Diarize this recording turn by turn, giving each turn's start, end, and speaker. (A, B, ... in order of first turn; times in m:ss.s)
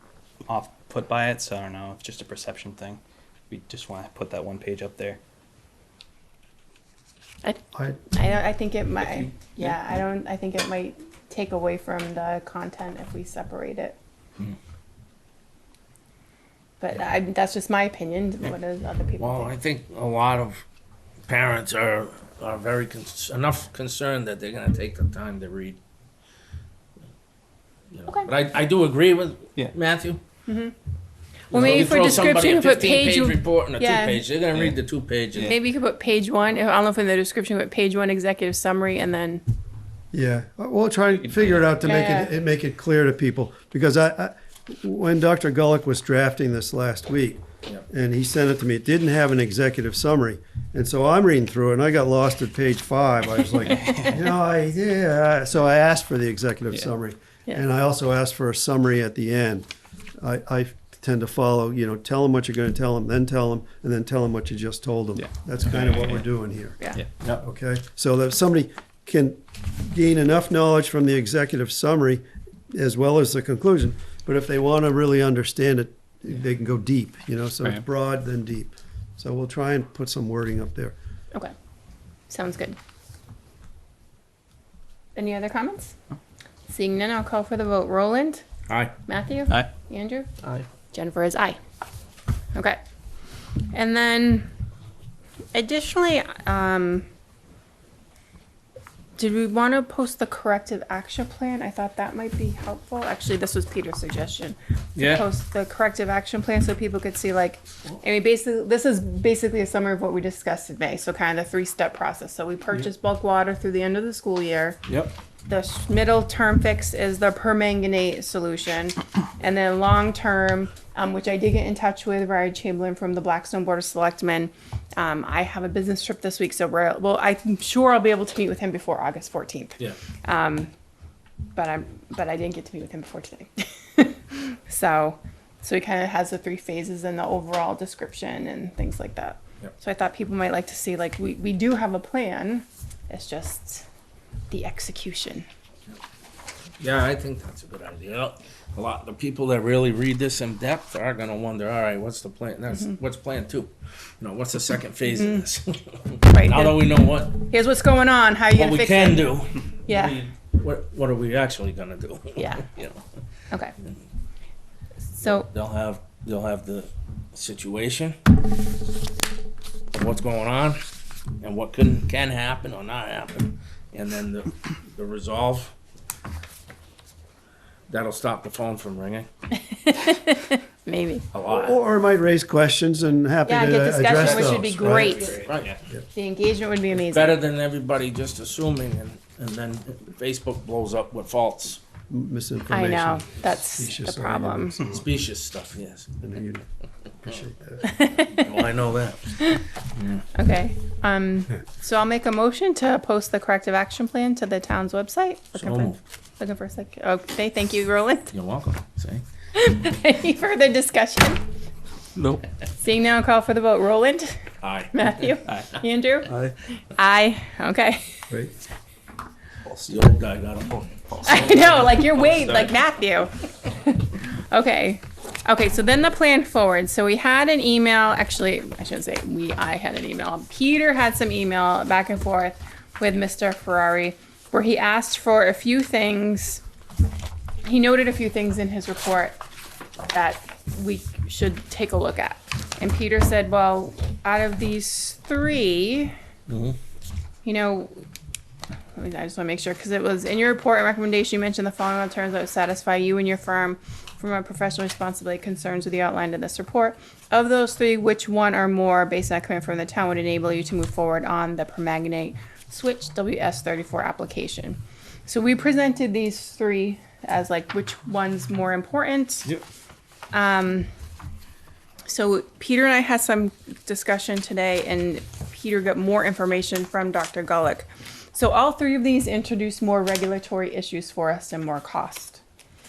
0:00.4-0:05.2 A
0:07.4-0:14.0 B
0:07.7-0:08.0 C
0:16.8-0:19.6 B
0:19.2-0:20.6 D
0:21.3-0:25.8 D
0:27.9-0:30.2 D
0:30.4-0:30.7 B
0:31.5-0:35.6 D
0:31.5-0:34.2 B
0:31.6-0:32.0 C
0:35.4-0:39.4 B
0:40.1-0:59.7 C
0:41.8-0:42.3 B
0:53.7-0:54.2 A
1:00.2-1:20.9 C
1:05.9-1:06.2 A
1:22.3-1:22.8 B
1:25.1-1:25.9 B
1:26.7-1:28.4 B
1:28.7-1:28.9 D
1:29.1-1:30.3 B
1:30.9-1:31.6 B
1:33.7-1:34.5 B
1:35.5-1:37.0 B
1:39.2-1:54.8 B
1:45.0-1:45.2 D
1:54.9-1:55.1 D
1:55.5-2:10.7 B
2:11.5-2:23.8 B
2:24.5-2:25.4 B
2:26.8-2:37.4 D
2:35.1-2:35.5 B
2:36.2-2:36.8 B
2:37.4-2:39.3 B
2:38.5-2:43.0 D
2:39.9-2:40.2 B
2:42.4-2:42.6 B
2:45.2-2:45.5 B
2:45.2-2:48.2 D
2:49.9-2:50.8 D
2:51.4-2:55.7 D
2:57.9-2:59.3 D
2:59.7-3:01.2 B
3:01.3-3:01.8 D
3:01.5-3:05.3 C
3:03.4-3:05.5 B
3:04.1-3:05.7 D
3:04.8-3:05.8 A
3:06.1-3:07.4 B
3:06.9-3:11.8 D
3:12.1-3:15.1 C
3:12.7-3:14.8 B
3:14.8-3:16.1 D
3:16.2-3:16.6 C
3:17.2-3:17.9 C
3:17.8-3:18.6 B
3:18.3-3:19.3 D
3:20.0-3:20.2 D
3:20.3-3:28.3 B
3:25.5-3:26.0 D
3:28.3-3:29.2 D
3:29.5-3:31.4 B
3:32.2-3:32.5 D
3:32.8-3:34.4 B
3:34.6-3:35.0 D
3:34.9-3:38.2 B
3:39.6-3:42.8 D
3:41.2-3:56.6 B
3:57.6-3:59.4 B
4:00.1-4:06.1 B
4:06.5-4:06.8 D
4:07.4-4:07.9 B
4:09.0-4:29.5 B
4:30.3-4:30.9 B
4:32.1-4:42.4 B